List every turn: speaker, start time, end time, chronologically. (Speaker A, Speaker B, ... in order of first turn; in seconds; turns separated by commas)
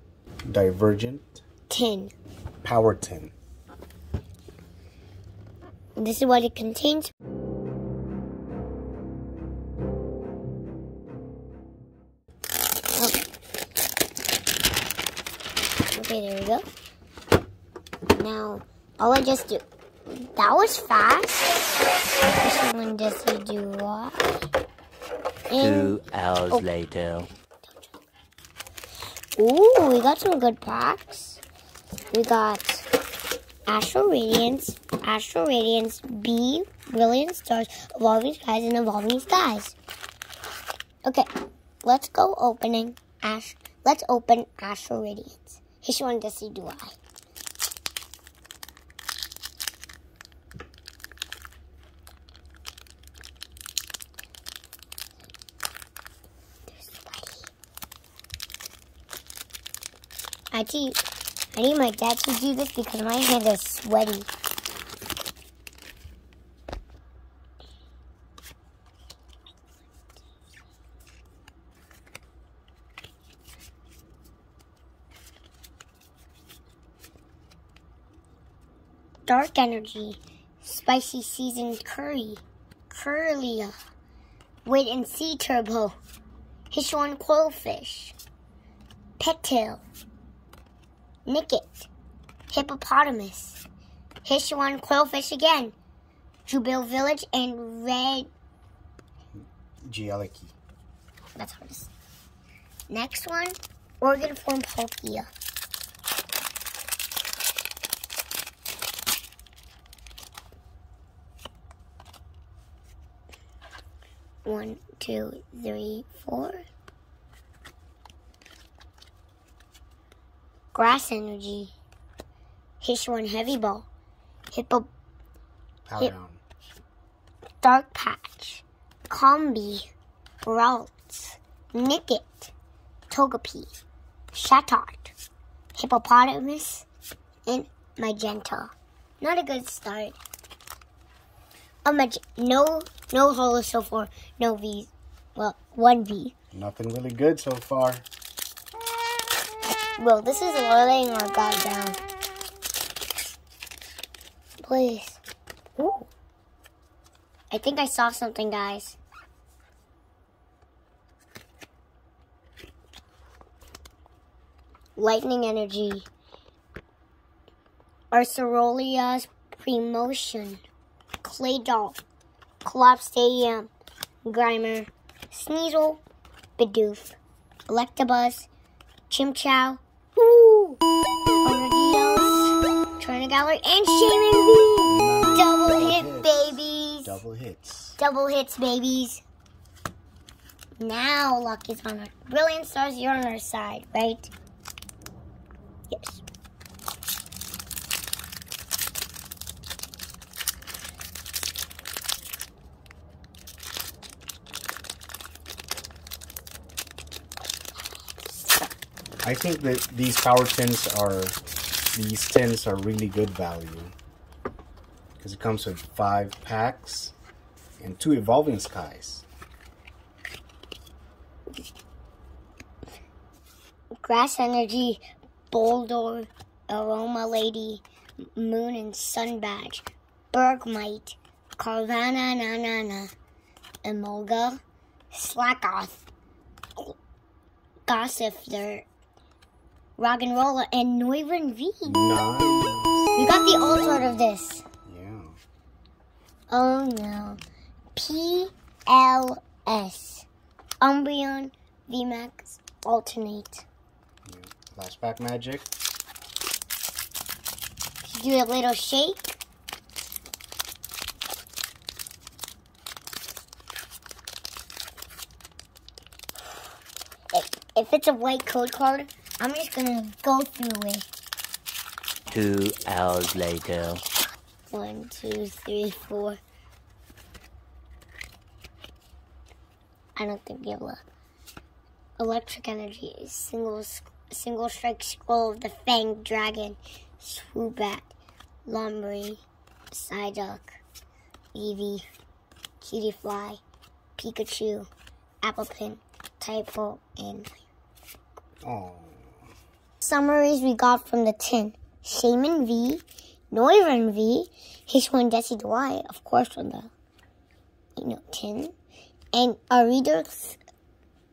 Speaker A: 0.5-1.4, Speaker B: 1.7-2.1, Speaker A: 2.6-3.3, Speaker B: 6.0-7.1, Speaker B: 13.0-13.2, Speaker B: 15.9-16.7, Speaker B: 18.1-21.5, Speaker B: 22.3-24.4, Speaker B: 25.5-26.0, Speaker C: 25.6-27.3, Speaker B: 29.4-31.4, Speaker B: 32.1-32.9, Speaker B: 33.7-39.8, Speaker B: 41.8-47.0, Speaker B: 56.7-57.5, Speaker B: 60.5-61.0, Speaker B: 61.5-64.3, Speaker B: 79.2-83.7, Speaker B: 84.6-86.0, Speaker B: 86.7-88.2, Speaker B: 89.2-89.8, Speaker B: 91.2-91.9, Speaker B: 92.5-93.6, Speaker B: 94.2-95.8, Speaker B: 96.5-98.3, Speaker A: 99.3-100.5, Speaker B: 101.4-101.9, Speaker B: 102.9-105.3, Speaker B: 114.5-116.6, Speaker B: 120.7-121.7, Speaker B: 122.8-123.9, Speaker B: 124.5-124.9, Speaker A: 125.9-126.4, Speaker B: 127.6-129.9, Speaker B: 130.4-132.5, Speaker B: 133.1-133.7, Speaker B: 134.3-135.1, Speaker B: 135.8-136.8, Speaker B: 137.5-140.2, Speaker B: 141.8-146.3, Speaker A: 146.5-148.1, Speaker B: 150.0-152.0, Speaker B: 154.7-155.2, Speaker B: 155.8-156.1, Speaker B: 157.5-159.0, Speaker B: 165.0-166.1, Speaker B: 168.1-170.6, Speaker B: 171.2-172.0, Speaker B: 172.6-173.7, Speaker B: 174.2-176.0, Speaker B: 176.6-178.5, Speaker B: 179.1-180.8, Speaker B: 181.4-187.2, Speaker A: 184.9-188.0, Speaker B: 188.0-189.2, Speaker B: 190.8-194.3, Speaker B: 195.9-196.2, Speaker A: 209.2-211.4, Speaker A: 211.9-213.9, Speaker A: 215.2-217.2, Speaker A: 217.8-219.2, Speaker B: 224.0-227.8, Speaker B: 228.3-233.1, Speaker B: 233.8-234.6, Speaker B: 235.1-236.0, Speaker B: 237.8-238.8, Speaker B: 240.0-242.0, Speaker A: 241.8-244.2, Speaker B: 243.2-244.7, Speaker A: 244.8-245.4, Speaker B: 246.5-247.4, Speaker B: 247.9-250.2, Speaker B: 250.8-253.6, Speaker A: 254.2-255.7, Speaker B: 258.0-259.4, Speaker B: 267.3-271.1, Speaker C: 272.3-274.0, Speaker B: 274.7-276.4, Speaker B: 280.2-281.1, Speaker B: 282.2-288.1, Speaker B: 288.7-290.8, Speaker B: 291.5-292.1, Speaker B: 292.8-293.6, Speaker B: 294.2-294.9, Speaker B: 295.4-297.7, Speaker A: 298.6-299.3, Speaker B: 300.0-306.9, Speaker B: 308.0-308.8, Speaker B: 309.3-310.6